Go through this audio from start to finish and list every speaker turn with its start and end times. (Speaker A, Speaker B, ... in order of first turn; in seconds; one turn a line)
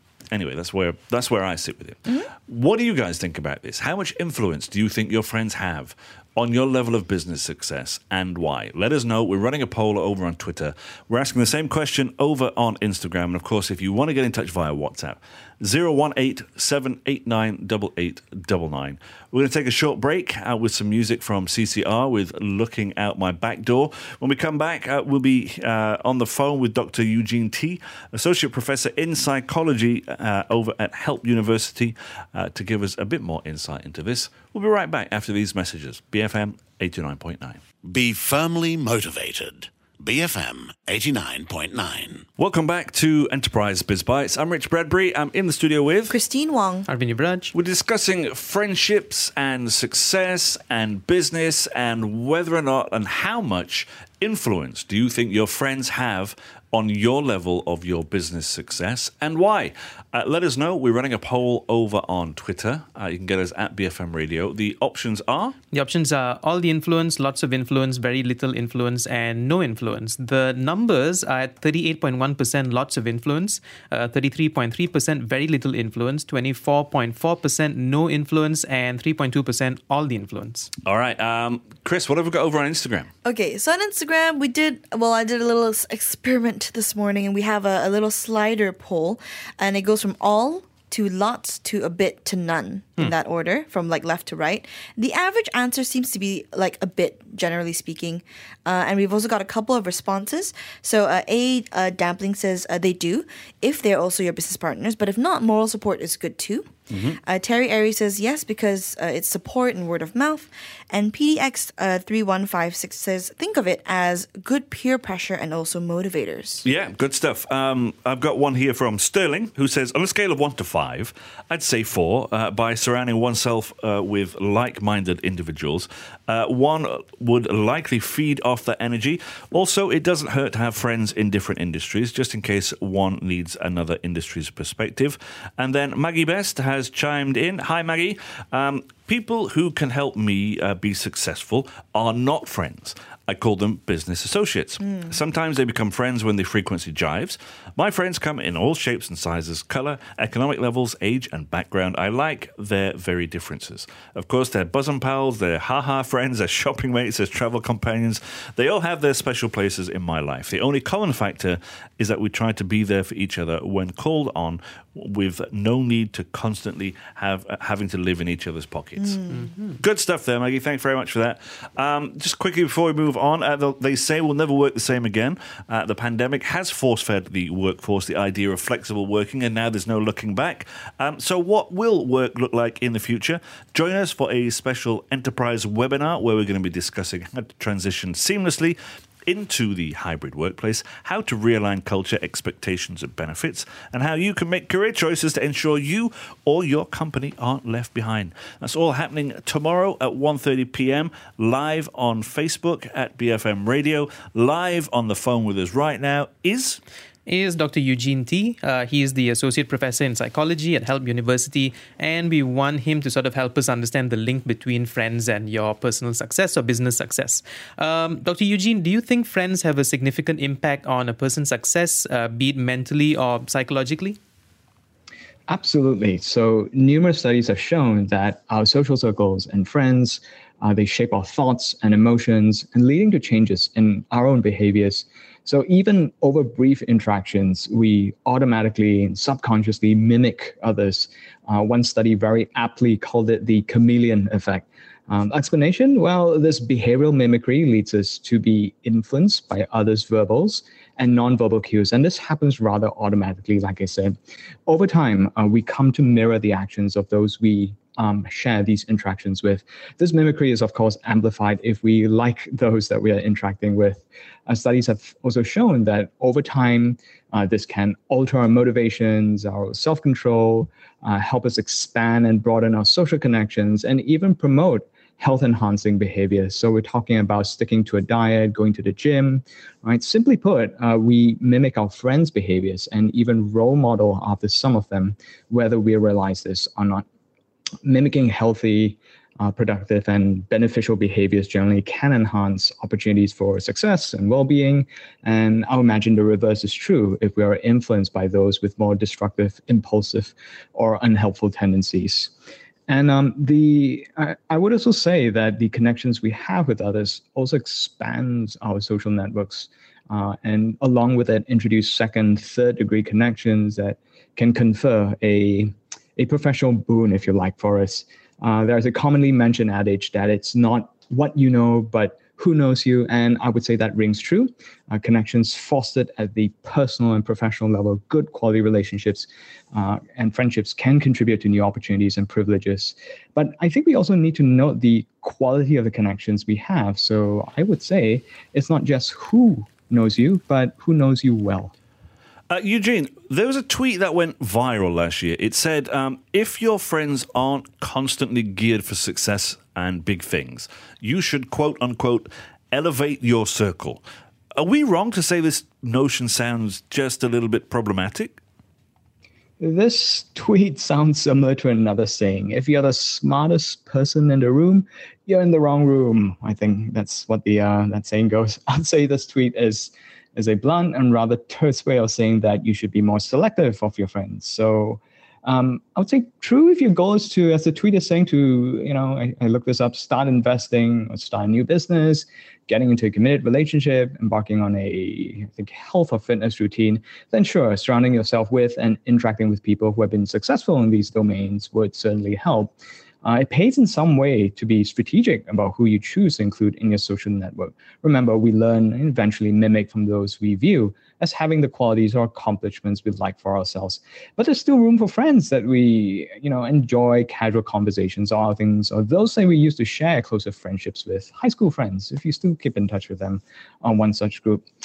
Speaker A: 0.3-37.6
Speaker B: 37.8-42.3
Speaker A: 42.4-46.2
Speaker C: 46.1-46.9
Speaker D: 46.9-47.5
Speaker A: 47.5-65.6
Speaker D: 65.7-80.7
Speaker A: 80.8-83.1
Speaker C: 83.2-106.7
Speaker A: 106.9-107.2
Speaker C: 107.2-116.7
Speaker A: 116.6-169.2
Speaker C: 144.8-145.2
Speaker C: 169.0-169.5
Speaker D: 169.3-169.8
Speaker A: 169.8-206.8
Speaker D: 207.3-224.2
Speaker E: 225.5-254.2
Speaker E: 254.7-287.1
Speaker E: 287.8-302.3
Speaker E: 302.9-341.7
Speaker A: 342.5-354.0
Speaker A: 354.6-358.4
Speaker E: 359.6-414.6